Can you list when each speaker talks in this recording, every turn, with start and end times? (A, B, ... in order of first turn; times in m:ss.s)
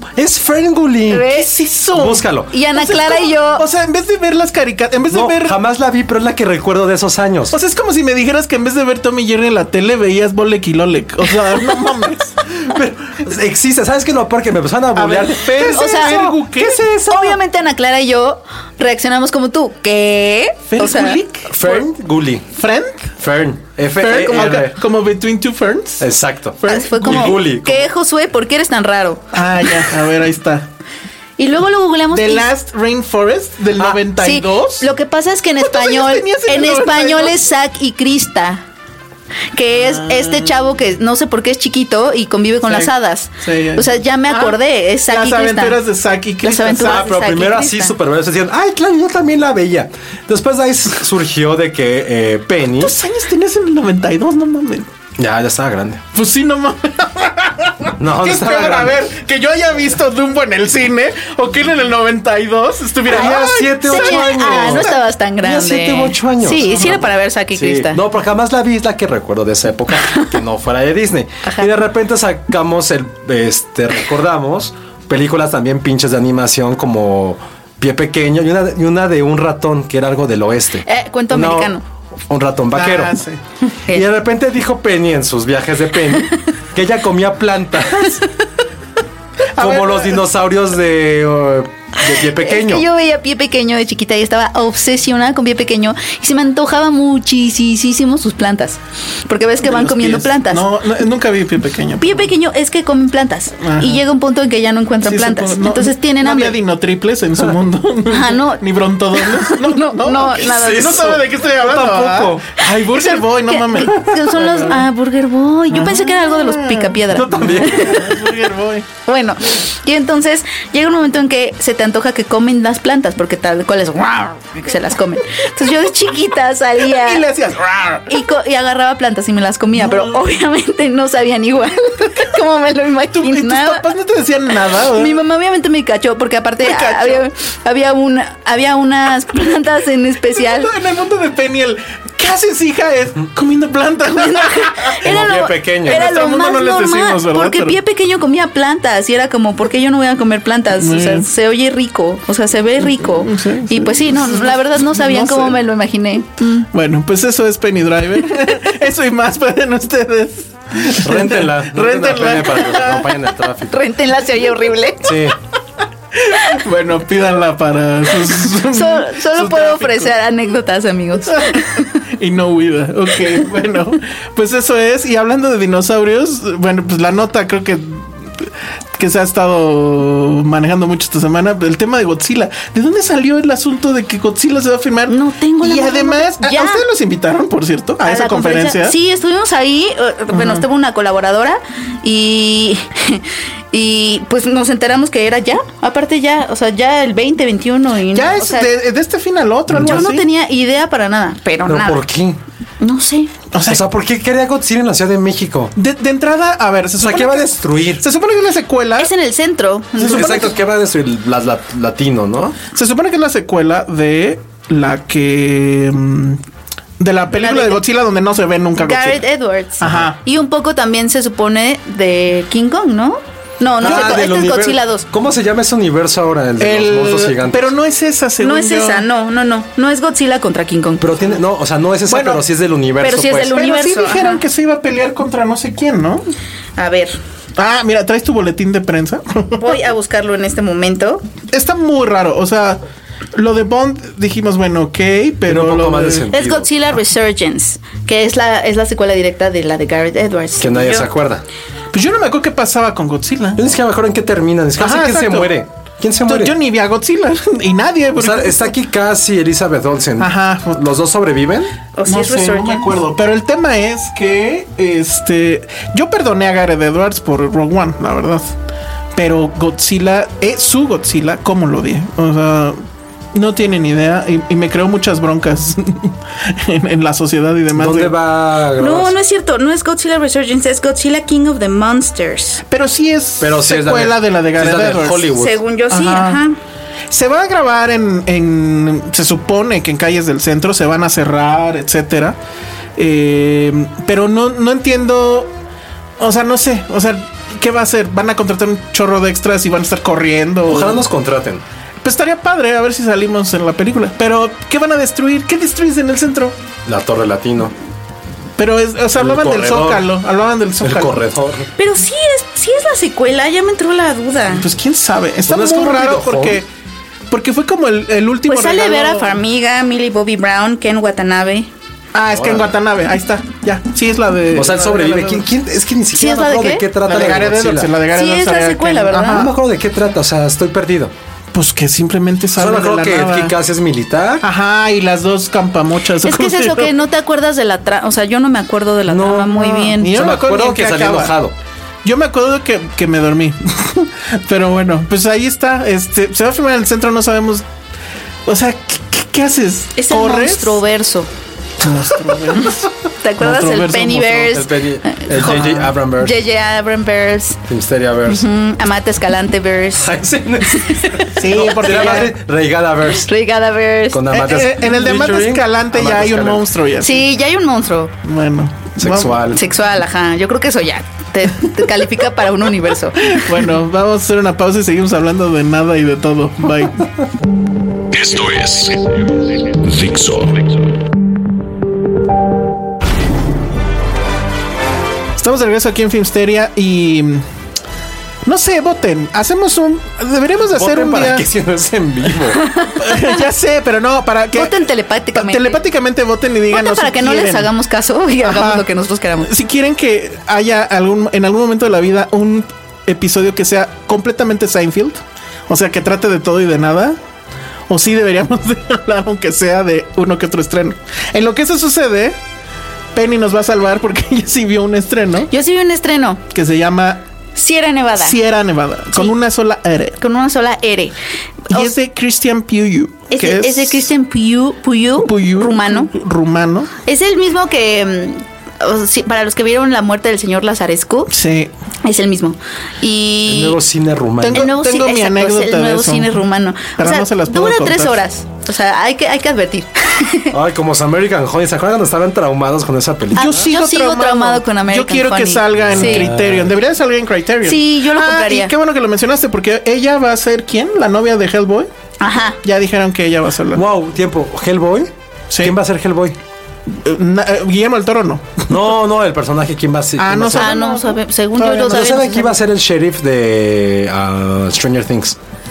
0:00.2-0:01.3 A
0:01.1-0:01.6 B
0:01.3-0:05.6 C
0:01.9-0:02.5 A
0:02.5-0:03.7 B
0:05.1-0:07.6 A
0:07.5-0:12.4 C
0:12.5-0:17.4 A
0:15.0-0:17.3 C
0:15.6-0:16.3 B
0:17.1-0:21.2 B
0:20.7-0:21.9 C
0:21.5-0:22.5 A
0:22.5-0:23.1 C
0:23.2-0:24.8 A
0:24.0-0:26.1 C
0:24.1-0:24.6 B
0:26.0-0:27.9 A
0:26.6-0:27.4 C
0:26.6-0:29.3 B
0:29.3-0:30.7 C
0:31.4-0:32.5 B
0:32.1-0:34.9 C
0:34.1-0:38.6 B
0:35.6-0:37.4 C
0:39.5-0:45.8 B
0:39.8-0:40.5 C
0:42.7-0:47.1 C
0:46.4-0:48.0 B
0:46.8-0:52.9 A
0:52.8-0:54.9 C
0:55.2-0:56.0 A
0:56.1-1:05.0 C
0:58.0-0:59.0 A
1:03.1-1:21.8 A
1:03.1-1:08.0 B
1:06.7-1:07.0 C
1:10.0-1:10.3 B
1:11.4-1:11.7 B
1:20.9-1:21.8 B
1:22.3-1:23.2 A
1:22.7-1:23.4 C
1:23.7-1:24.1 B
1:23.9-1:28.2 A
1:29.6-1:30.2 C
1:29.6-1:32.9 A
1:32.3-1:40.7 B
1:39.6-1:42.3 C
1:42.0-1:46.6 B
1:43.6-1:44.0 C
1:45.0-1:54.9 C
1:48.1-1:48.6 B
1:49.2-1:51.2 B
1:50.3-1:52.6 A
1:52.9-1:58.1 B
1:55.7-1:58.9 C
1:57.1-1:58.2 A
1:59.1-2:07.2 B
2:06.8-2:08.1 C
2:08.1-2:13.9 B
2:09.8-2:10.2 C
2:13.2-2:15.2 C
2:14.9-2:20.7 B
2:16.6-2:17.3 C
2:20.3-2:27.8 C
2:24.2-2:36.7 B
2:25.0-2:26.1 A
2:30.8-2:31.3 C
2:32.8-2:35.6 C
2:36.7-2:43.2 C
2:41.0-2:43.8 A
2:43.7-2:45.2 B
2:45.0-2:45.4 A
2:46.2-2:50.1 C
2:48.5-2:52.0 B
2:51.3-3:09.0 C
3:05.1-3:06.8 B
3:08.0-3:18.7 B
3:10.3-3:10.7 C
3:18.1-3:20.3 C
3:19.7-3:20.1 A
3:19.8-3:22.0 B
3:21.7-3:22.4 A
3:22.8-3:23.3 B
3:23.5-3:23.8 C
3:23.7-3:25.7 A
3:25.8-3:29.1 C
3:27.0-3:28.0 A
3:29.0-3:30.5 B
3:30.0-3:32.6 A
3:30.0-3:30.5 C
3:32.7-3:36.4 C
3:37.0-3:39.2 C
3:37.3-3:37.8 B
3:38.8-3:45.1 B
3:39.8-3:40.2 C
3:39.8-3:40.1 A
3:43.8-3:47.7 A
3:46.6-3:49.0 C
3:48.4-3:51.0 B
3:51.0-3:53.6 A
3:52.1-3:52.4 C
3:53.0-3:54.4 B
3:53.5-3:56.3 C
3:56.8-3:57.2 B
3:57.6-3:59.8 C
3:59.6-4:01.2 B
4:01.5-4:02.8 C
4:03.4-4:06.3 C
4:05.4-4:06.7 A
4:06.3-4:11.1 B
4:10.6-4:11.4 A
4:11.9-4:13.6 C
4:13.6-4:16.6 A
4:14.8-4:15.5 C
4:16.2-4:18.7 C
4:18.1-4:21.7 A
4:20.2-4:20.8 C
4:22.0-4:22.9 B
4:22.1-4:28.5 C
4:29.1-4:32.8 C
4:33.3-4:38.2 C
4:37.7-4:39.1 A
4:38.8-4:42.6 B
4:42.7-4:45.3 C
4:43.4-4:45.6 A
4:45.4-4:46.6 B
4:45.9-4:46.4 C
4:47.1-4:52.4 C
4:53.0-4:55.5 C
4:56.2-5:01.0 C
5:00.6-5:01.6 A
5:02.0-5:06.6 C
5:06.8-5:07.7 A
5:08.6-5:11.2 C
5:09.2-5:10.1 A
5:10.8-5:11.7 A
5:11.8-5:14.6 B
5:14.5-5:16.7 C
5:15.4-5:16.6 A
5:17.3-5:19.4 C
5:18.5-5:21.7 B
5:22.1-5:25.5 C
5:22.3-5:22.7 A
5:24.5-5:27.9 A
5:26.2-5:26.8 B
5:27.0-5:29.5 C
5:28.1-5:29.5 B
5:29.1-5:31.1 A
5:31.5-5:33.5 C
5:32.6-5:34.5 A
5:34.4-5:36.9 C
5:36.2-5:40.1 B
5:39.1-5:41.6 A
5:39.9-5:41.4 C
5:42.0-5:47.7 C
5:48.5-5:50.8 C
5:50.0-5:51.3 B
5:51.8-5:54.6 C
5:53.2-5:57.6 B
5:54.4-5:56.4 A
5:55.3-5:55.9 C
5:57.7-5:58.5 A
5:58.3-6:00.1 B
6:00.0-6:03.3 A
6:00.7-6:02.3 B
6:01.4-6:02.3 C
6:03.2-6:04.2 B
6:04.1-6:06.7 A
6:04.3-6:07.2 C
6:07.0-6:08.1 B
6:08.2-6:09.4 C
6:09.0-6:09.6 A
6:09.5-6:13.4 B
6:13.2-6:17.1 C
6:18.1-6:20.8 D
6:25.4-6:27.4 C
6:28.5-6:31.4 C
6:30.6-6:32.6 A
6:32.6-6:33.3 B
6:33.0-6:34.8 C
6:34.5-6:35.8 B
6:35.3-6:37.7 C
6:36.7-6:39.5 B
6:38.4-6:38.9 C
6:39.4-6:47.2 C
6:47.9-6:52.4 C
6:53.1-6:55.5 C
6:55.5-6:56.4 B
6:56.5-6:57.2 C
6:57.6-6:58.4 B
6:58.2-7:00.2 C
7:00.2-7:01.2 B
7:01.7-7:04.1 C
7:03.3-7:06.1 B
7:05.2-7:06.9 C
7:07.0-7:11.3 B
7:11.3-7:11.7 C
7:12.0-7:13.8 B
7:13.5-7:14.7 A
7:14.4-7:16.4 C
7:14.5-7:20.5 B
7:17.0-7:18.2 C
7:20.5-7:23.7 A
7:23.3-7:26.3 B
7:23.4-7:31.9 C
7:25.8-7:26.8 A
7:27.6-7:28.7 B
7:32.2-7:32.6 B
7:32.6-7:33.8 C
7:33.7-7:36.4 A
7:35.5-7:35.8 C
7:36.9-7:38.7 C
7:38.7-7:40.8 A
7:40.2-7:42.3 C
7:40.6-7:42.6 B
7:41.9-7:45.4 A